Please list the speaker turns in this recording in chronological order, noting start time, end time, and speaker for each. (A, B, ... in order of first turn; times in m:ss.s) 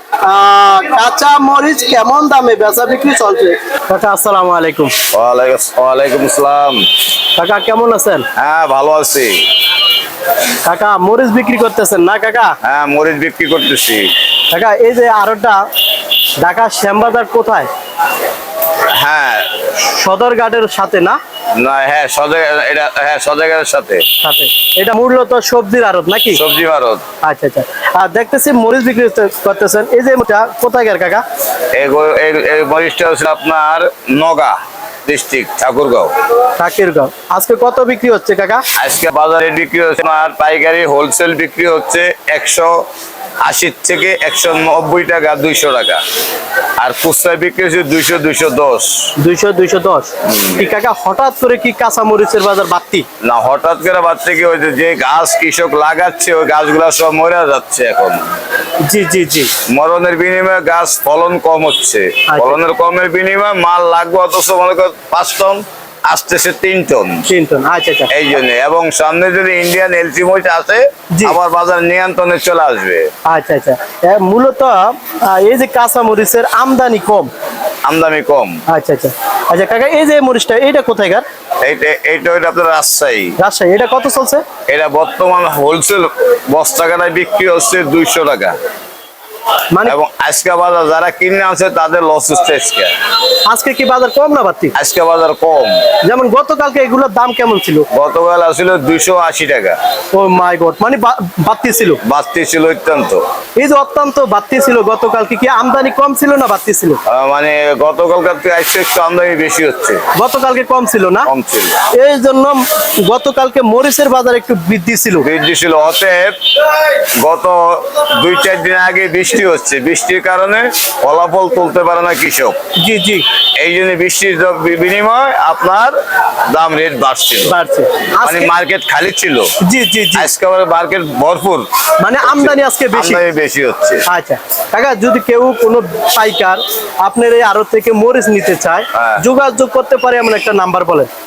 0:00.2-0:05.0 A
0:05.1-0:06.8 B
0:07.4-0:08.2 A
0:08.4-0:09.4 B
0:10.6-0:12.5 A
0:12.6-0:14.1 B
0:14.5-0:15.6 A
0:16.4-0:17.7 A
0:18.9-0:19.5 B
0:19.8-0:21.2 A
0:21.6-0:24.0 B
0:24.2-0:26.4 A
0:26.3-0:27.0 B
0:27.2-0:31.2 A
0:31.7-0:36.1 B
0:36.6-0:38.6 A
0:38.8-0:42.8 B
0:43.4-0:46.0 B
0:46.8-0:49.1 B
0:49.2-0:53.0 A
0:50.2-0:50.7 B
0:53.2-0:58.3 B
0:58.8-0:59.5 A
0:59.7-1:07.2 B
1:02.3-1:02.6 A
1:07.3-1:08.1 A
1:08.1-1:13.1 B
1:11.1-1:11.4 A
1:13.2-1:17.3 A
1:17.8-1:18.6 B
1:18.7-1:21.2 A
1:21.6-1:23.4 B
1:23.4-1:24.4 A
1:24.7-1:28.6 B
1:29.8-1:32.9 B
1:33.5-1:34.7 A
1:34.8-1:35.8 B
1:36.0-1:37.8 A
1:37.9-1:39.8 B
1:40.1-1:42.0 A
1:42.0-1:43.2 B
1:43.6-1:47.0 A
1:47.0-1:50.0 B
1:50.1-1:51.3 A
1:51.2-1:51.8 B
1:51.9-1:55.3 A
1:55.2-2:02.5 B
2:02.8-2:03.2 A
2:03.6-2:05.9 B
2:06.5-2:07.5 B
2:07.4-2:08.5 A
2:08.2-2:09.5 B
2:09.6-2:10.3 A
2:10.2-2:11.7 B
2:12.0-2:13.2 A
2:12.2-2:14.0 B
2:14.1-2:21.1 A
2:18.9-2:19.2 B